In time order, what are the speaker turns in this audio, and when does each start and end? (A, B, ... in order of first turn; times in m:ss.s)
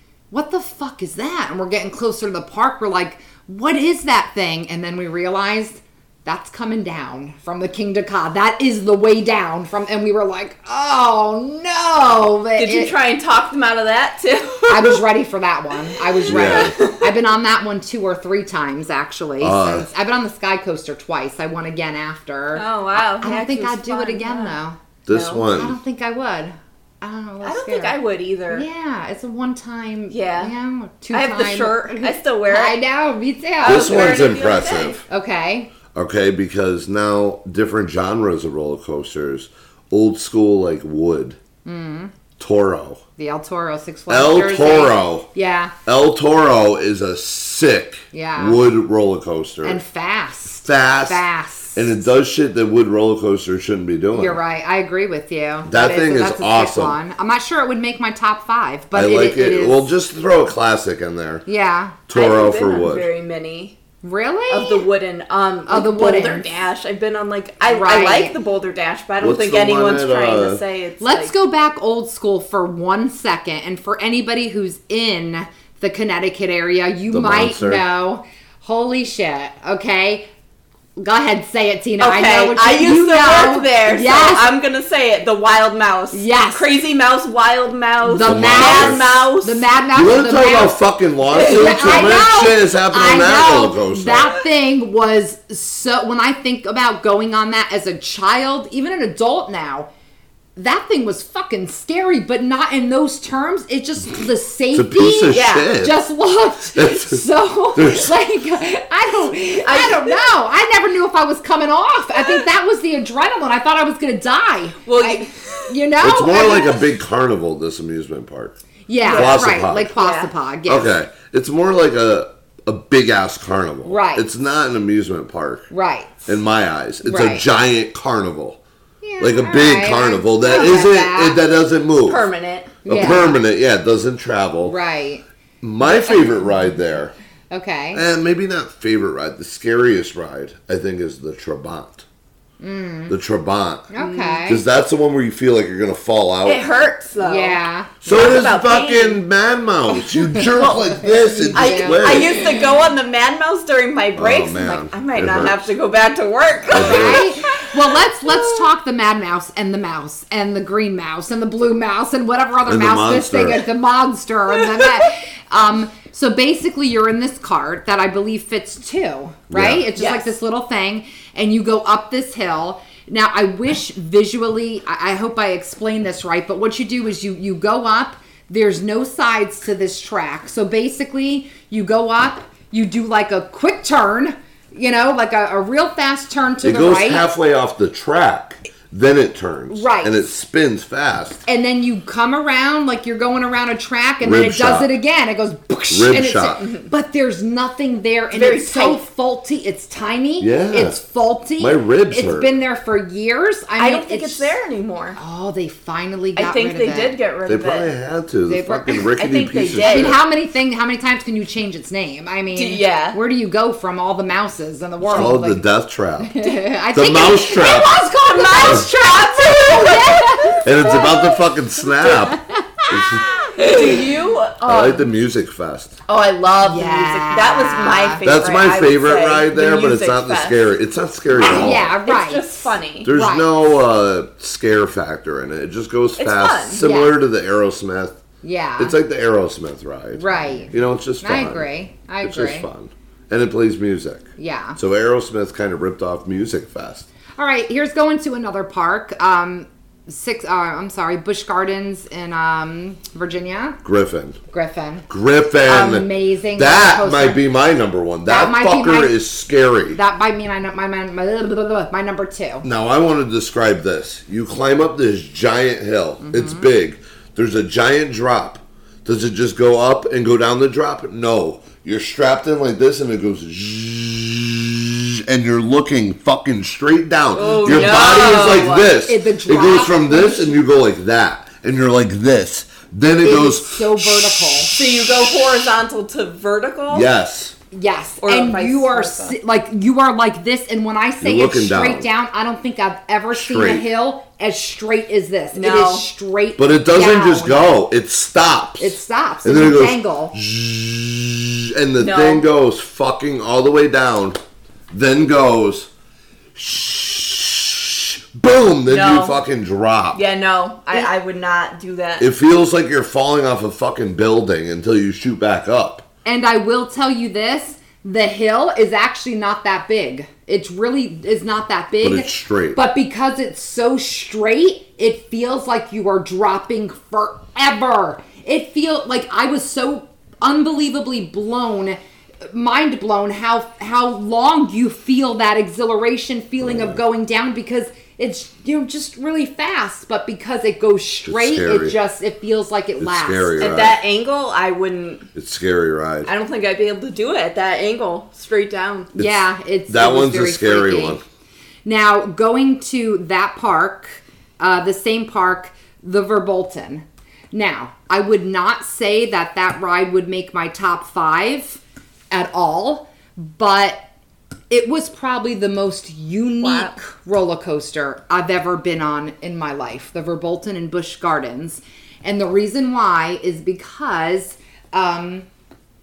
0:00.3-0:12.9 A
0:12.6-0:15.0 B
0:14.7-0:24.8 A
0:16.3-0:16.8 C
0:16.4-0:17.1 B
0:19.4-0:19.9 C
0:22.6-0:24.6 B
0:25.1-0:25.8 C
0:25.1-0:25.5 B
0:25.5-0:28.0 A
0:27.4-0:28.6 B
0:28.5-0:34.2 A
0:30.1-0:30.5 B
0:31.1-0:32.8 B
0:33.6-0:35.0 B
0:33.6-0:35.0 C
0:35.1-0:35.7 A
0:35.9-0:41.4 C
0:41.6-0:42.1 A
0:42.4-0:43.0 C
0:43.2-0:45.7 A
0:44.1-0:45.3 C
0:45.9-0:49.8 C
0:48.1-0:48.6 A
0:49.6-0:52.0 A
0:50.6-0:51.2 C
0:51.8-0:54.4 C
0:54.1-0:59.9 A
0:55.7-0:57.0 C
0:58.9-1:01.4 C
1:01.5-1:02.0 A
1:02.1-1:03.1 C
1:02.1-1:03.8 B
1:04.0-1:04.8 A
1:04.5-1:11.3 B
1:05.7-1:06.5 A
1:07.7-1:08.4 A
1:09.2-1:10.6 C
1:11.0-1:20.3 A
1:17.1-1:17.8 C
1:21.0-1:24.5 A
1:22.0-1:29.7 B
1:26.1-1:26.6 A
1:28.0-1:30.8 A
1:28.2-1:29.0 C
1:29.9-1:34.4 C
1:31.3-1:39.9 A
1:31.4-1:32.1 B
1:40.6-1:56.8 A
1:44.7-1:46.0 C
1:45.3-1:45.7 B
1:46.8-1:47.2 C
1:47.8-1:48.1 C
1:49.6-1:50.2 B
1:54.9-1:55.8 B
1:56.0-2:00.0 C
1:58.9-2:00.9 A
1:59.0-2:00.3 B
2:00.7-2:05.7 C
2:03.8-2:04.2 A
2:05.7-2:06.4 A
2:06.3-2:08.6 C
2:07.0-2:07.4 A
2:09.0-2:11.4 A
2:09.2-2:12.3 C
2:12.1-2:13.2 B
2:12.8-2:14.8 C
2:12.9-2:13.4 A
2:14.6-2:15.2 A
2:15.6-2:17.1 C
2:15.8-2:16.6 A
2:17.5-2:18.0 A
2:17.9-2:22.0 C
2:22.6-2:23.2 A
2:23.1-2:23.9 C
2:23.9-2:24.6 A
2:24.0-2:24.4 B
2:24.5-2:26.6 C
2:26.4-2:29.2 B
2:27.2-2:28.0 A
2:28.0-2:32.4 C
2:30.3-2:37.9 B
2:30.4-2:32.3 A
2:34.2-2:35.7 C
2:36.7-2:37.3 C
2:36.7-3:07.3 A
2:42.7-2:43.7 C
2:49.5-2:49.8 C
2:50.0-2:50.3 B
3:06.6-3:11.4 C
3:09.7-3:10.2 A
3:11.5-3:24.5 A
3:14.2-3:14.9 C
3:15.9-3:16.6 C
3:16.6-3:16.9 B
3:18.3-3:19.0 B
3:20.4-3:21.0 C
3:21.6-3:22.5 C
3:23.8-3:25.2 B
3:25.2-3:27.2 A
3:26.4-3:27.9 B
3:27.5-3:30.2 C
3:28.5-3:29.1 A
3:29.1-3:30.2 B
3:29.8-3:35.7 A
3:32.6-3:33.2 B
3:35.0-3:36.4 C
3:36.3-3:40.6 A
3:36.9-3:38.0 C
3:37.7-3:41.1 B
3:40.6-3:43.3 C
3:42.3-3:43.6 A
3:43.6-3:45.0 B
3:44.6-3:46.0 C
3:46.1-3:50.6 B
3:46.7-3:48.2 A
3:48.2-3:51.9 C
3:51.4-3:53.5 A
3:51.4-3:53.1 B
3:53.0-3:58.2 C
3:56.2-3:56.8 B
3:56.8-3:57.2 A
3:58.4-3:59.0 A
3:58.8-4:01.7 C
4:00.2-4:02.7 A
4:02.2-4:07.1 C
4:04.4-4:04.8 A
4:07.4-4:13.8 A
4:13.8-4:14.4 C
4:14.5-4:15.1 A
4:15.1-4:20.0 C
4:15.7-4:17.4 A
4:18.2-4:19.1 A
4:19.9-4:22.6 A
4:22.6-4:45.3 C
4:26.2-4:26.7 A
4:37.4-4:39.0 B
4:39.0-4:40.6 A
4:43.2-4:44.7 A
4:44.7-4:47.1 B
4:46.9-4:47.6 C
4:47.7-4:57.8 A
4:48.2-4:49.4 B
4:51.2-4:52.1 C
4:53.3-4:53.9 C
4:55.5-4:56.1 B
4:56.6-5:04.4 C
4:58.8-5:00.4 A
5:02.0-5:02.4 B
5:04.9-5:05.9 C
5:06.6-5:10.2 C
5:08.9-5:09.4 B
5:10.1-5:12.3 B
5:12.2-5:16.1 C
5:16.2-5:32.0 A
5:22.0-5:22.8 C
5:32.5-5:43.8 A
5:36.6-5:37.0 C
5:41.3-5:42.0 C
5:43.0-5:44.0 C
5:43.6-5:45.3 B
5:45.4-5:46.3 C
5:46.2-5:49.1 B
5:49.1-5:51.2 A
5:49.2-5:51.2 C
5:51.8-6:04.1 A
6:04.7-6:15.5 A
6:06.6-6:07.0 B